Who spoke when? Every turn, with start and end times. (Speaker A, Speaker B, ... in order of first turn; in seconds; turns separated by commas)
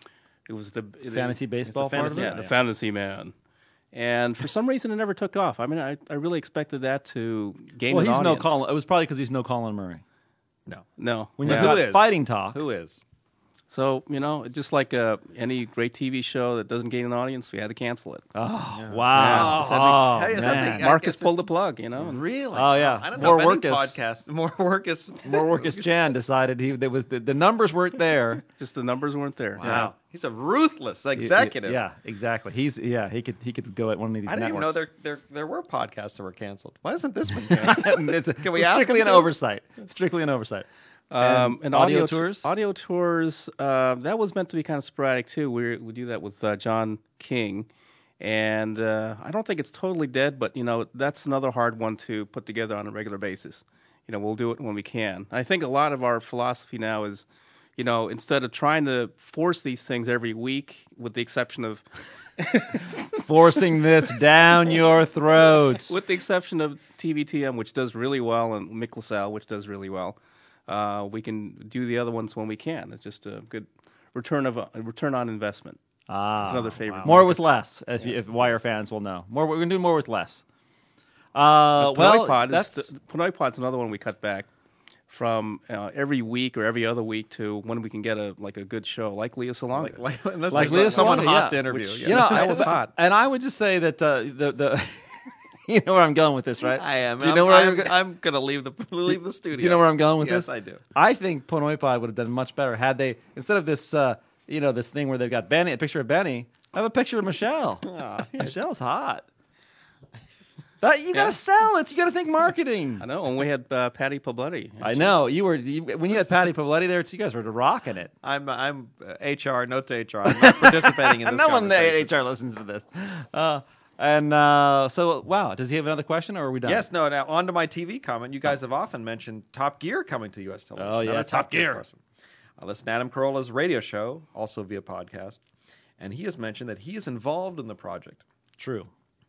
Speaker A: 0.5-3.3, Speaker B: 1.1-2.4, Speaker C: 1.8-2.5, Speaker A: 3.9-8.6, Speaker B: 7.9-10.0, Speaker A: 11.0-11.8, Speaker B: 11.4-12.6, Speaker C: 11.4-13.0, Speaker A: 13.7-18.3, Speaker B: 18.3-20.9, Speaker C: 18.7-21.4, Speaker A: 19.1-22.2, Speaker C: 22.0-25.9, Speaker B: 22.6-24.0, Speaker B: 25.2-28.4, Speaker A: 28.6-29.8, Speaker C: 29.6-31.8, Speaker B: 29.6-29.9, Speaker B: 31.2-34.8, Speaker C: 34.3-39.3, Speaker B: 37.5-40.7, Speaker A: 41.1-47.7, Speaker B: 41.2-42.5, Speaker A: 48.2-57.3, Speaker A: 57.8-61.9, Speaker A: 62.4-63.0, Speaker B: 63.2-66.0, Speaker A: 65.9-75.8, Speaker B: 76.1-80.4, Speaker A: 76.4-77.4, Speaker C: 76.5-77.3, Speaker B: 81.3-82.9, Speaker A: 81.8-84.5, Speaker A: 85.1-92.9, Speaker C: 89.7-92.7, Speaker B: 90.5-98.0, Speaker C: 96.6-100.8, Speaker B: 99.6-107.9, Speaker C: 107.8-108.5, Speaker B: 108.4-109.3, Speaker B: 110.8-113.0, Speaker A: 113.0-115.2, Speaker B: 114.8-118.1, Speaker C: 118.2-122.1, Speaker B: 120.3-126.9, Speaker C: 126.7-132.0, Speaker B: 130.8-131.8, Speaker C: 132.6-135.4, Speaker C: 136.0-138.2, Speaker B: 138.6-138.9